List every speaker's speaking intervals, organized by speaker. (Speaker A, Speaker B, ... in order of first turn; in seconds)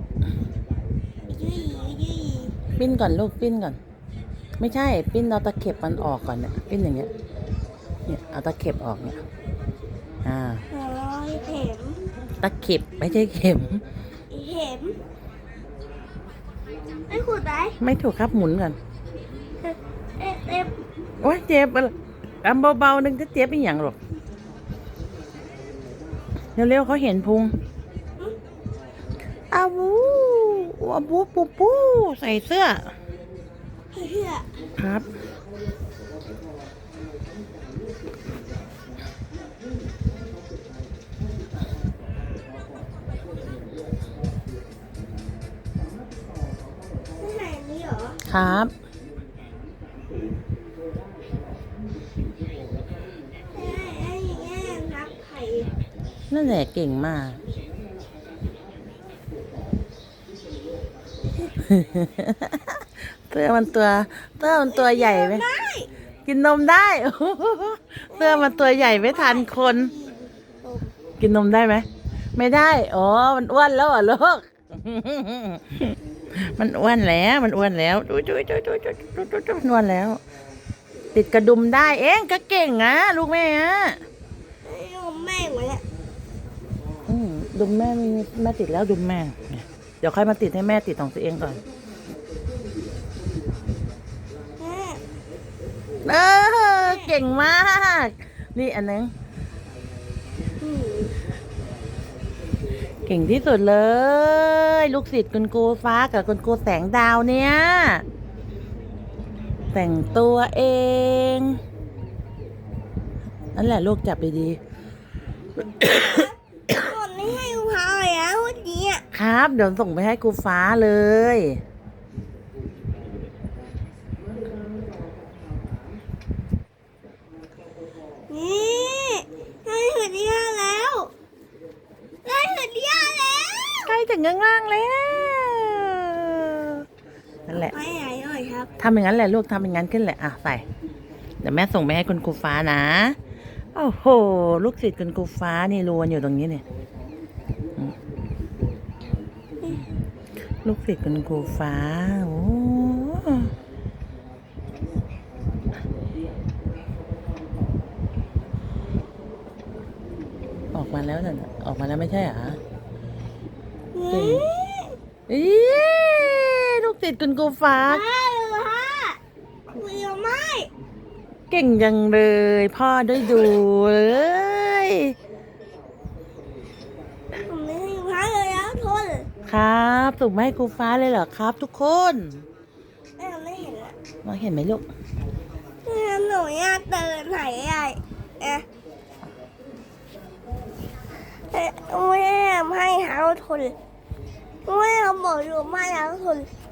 Speaker A: 1.3-2.5, 10.7-12.0, 14.3-14.9, 17.1-17.8, 19.6-20.7, 33.9-34.5, 47.2-48.2, 53.5-55.7, 64.6-65.9, 68.1-70.9, 84.6-85.8, 94.6-95.0, 96.8-97.1, 100.6-101.1, 115.8-119.0, 128.3-131.1, 132.2-133.9, 137.5-138.7, 163.9-164.9, 167.8-169.2, 169.7-170.7, 177.4-179.3, 183.2-183.9, 185.8-188.6, 191.5-193.8, 194.6-196.5
Speaker B: 2.8-3.8, 4.6-7.1, 8.1-9.2, 10.2-10.6, 12.4-13.8, 17.8-18.8, 21.2-23.9, 26.6-27.5, 29.5-32.9, 34.8-35.0, 48.3-48.7, 56.3-57.4, 61.6-65.4, 66.2-69.9, 71.2-80.2, 81.1-84.0, 87.1-91.6, 96.0-99.1, 103.0-108.0, 109.7-111.5, 113.5-114.6, 115.8-116.2, 119.1-121.6, 133.8-136.8, 137.5-137.7, 138.8-140.6, 141.4-143.2, 143.7-146.6, 150.6-153.5, 160.7-162.6, 164.1-164.4, 165.3-168.0, 171.5-175.1, 179.5-182.4, 184.2-184.8